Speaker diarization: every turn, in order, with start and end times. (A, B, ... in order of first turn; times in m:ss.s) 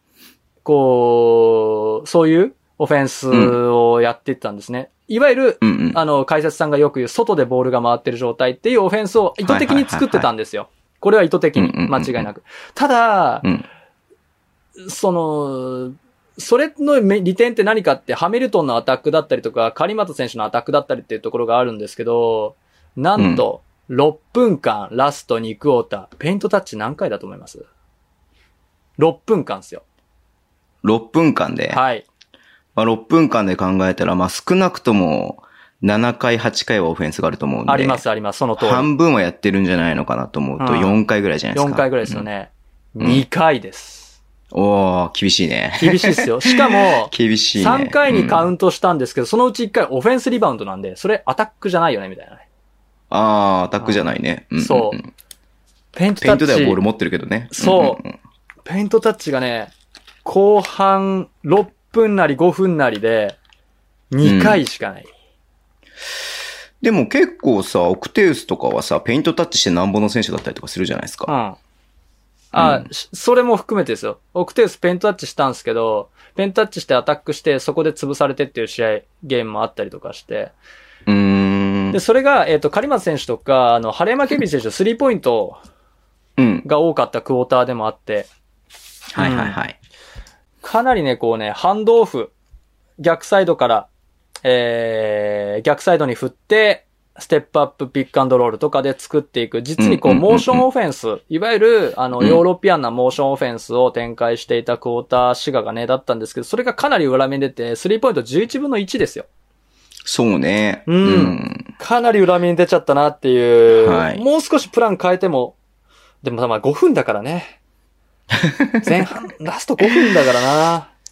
0:00.6-0:13.5 A
0:03.3-0:03.6 B
0:05.6-0:06.0 B
0:09.4-0:10.3 B
0:11.6-0:12.3 B
0:14.8-0:27.7 A
0:23.2-0:23.4 B
0:29.0-0:29.8 A
0:30.8-0:31.8 B
0:31.7-0:32.0 A
0:32.8-0:38.0 B
0:37.7-0:38.9 A
0:38.6-0:42.3 B
0:40.6-0:41.0 A
0:41.5-0:44.2 A
0:44.5-0:48.5 B
0:45.8-0:52.4 A
0:53.1-0:55.1 B
0:53.8-0:55.0 A
0:55.9-0:56.8 A
0:56.2-0:58.1 B
0:57.5-0:58.0 A
0:58.7-0:59.7 A
1:00.2-1:03.4 A
1:04.1-1:05.1 A
1:04.2-1:04.6 B
1:06.8-1:11.3 B
1:11.3-1:11.6 A
1:12.5-1:20.5 A
1:12.6-1:12.9 B
1:21.1-1:22.0 B
1:21.9-1:25.6 A
1:26.4-1:26.6 B
1:26.6-1:28.3 A
1:29.2-1:29.8 B
1:29.2-1:29.6 A
1:30.6-1:32.3 A
1:33.0-1:33.9 A
1:34.4-1:49.3 A
1:39.8-1:40.6 B
1:50.0-1:51.7 B
1:50.9-1:55.6 A
1:53.7-1:54.2 B
1:56.2-1:57.6 A
1:58.4-1:58.9 B
1:58.8-2:00.9 A